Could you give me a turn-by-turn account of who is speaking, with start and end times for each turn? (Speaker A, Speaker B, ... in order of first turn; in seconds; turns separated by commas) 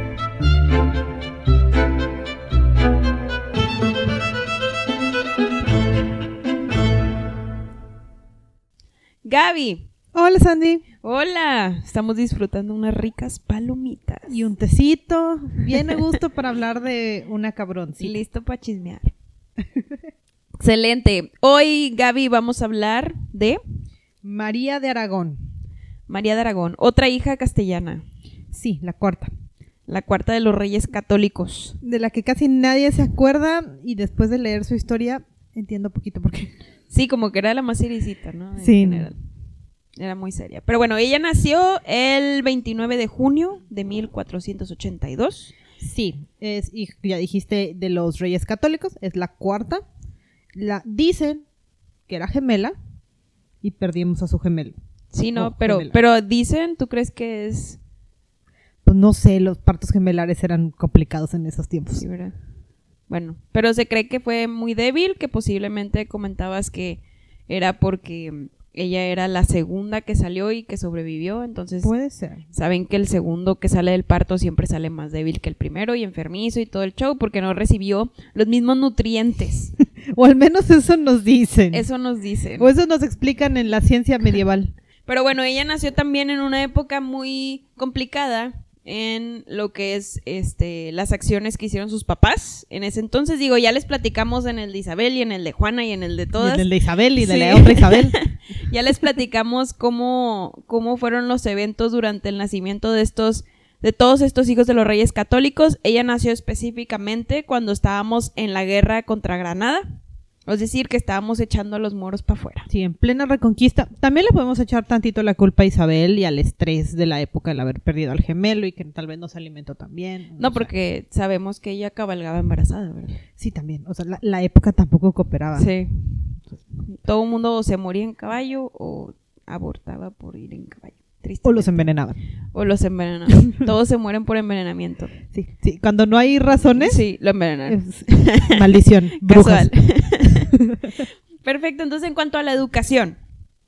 Speaker A: 9.2-9.9, Speaker B: 10.1-10.8, Speaker A: 11.0-14.4, Speaker B: 14.3-18.2, Speaker A: 15.8-16.1, Speaker A: 18.0-19.1, Speaker A: 20.6-23.6, Speaker B: 24.2-25.5, Speaker A: 26.1-28.0, Speaker B: 28.5-29.3, Speaker A: 29.9-31.8, Speaker B: 31.8-36.6, Speaker A: 36.9-39.2, Speaker B: 38.6-39.1, Speaker A: 40.0-45.5, Speaker B: 45.8-49.8, Speaker B: 50.5-51.5, Speaker B: 52.1-52.8, Speaker B: 53.6-54.7, Speaker A: 55.1-57.8, Speaker B: 55.4-56.0, Speaker B: 58.9-62.0, Speaker A: 61.9-62.4, Speaker A: 63.1-71.9, Speaker B: 71.8-72.5, Speaker A: 72.5-79.7, Speaker B: 80.1-81.8, Speaker A: 81.7-82.7, Speaker B: 82.6-84.7, Speaker A: 85.1-109.8, Speaker B: 96.4-98.2, Speaker A: 110.5-112.7, Speaker B: 112.7-120.7, Speaker A: 120.4-123.2, Speaker B: 123.4-125.7, Speaker A: 125.6-126.1, Speaker A: 126.8-131.9, Speaker B: 131.4-132.2, Speaker A: 132.5-135.2, Speaker B: 135.3-137.0, Speaker A: 136.8-140.5, Speaker B: 137.7-139.7, Speaker B: 140.2-141.0, Speaker A: 141.4-143.2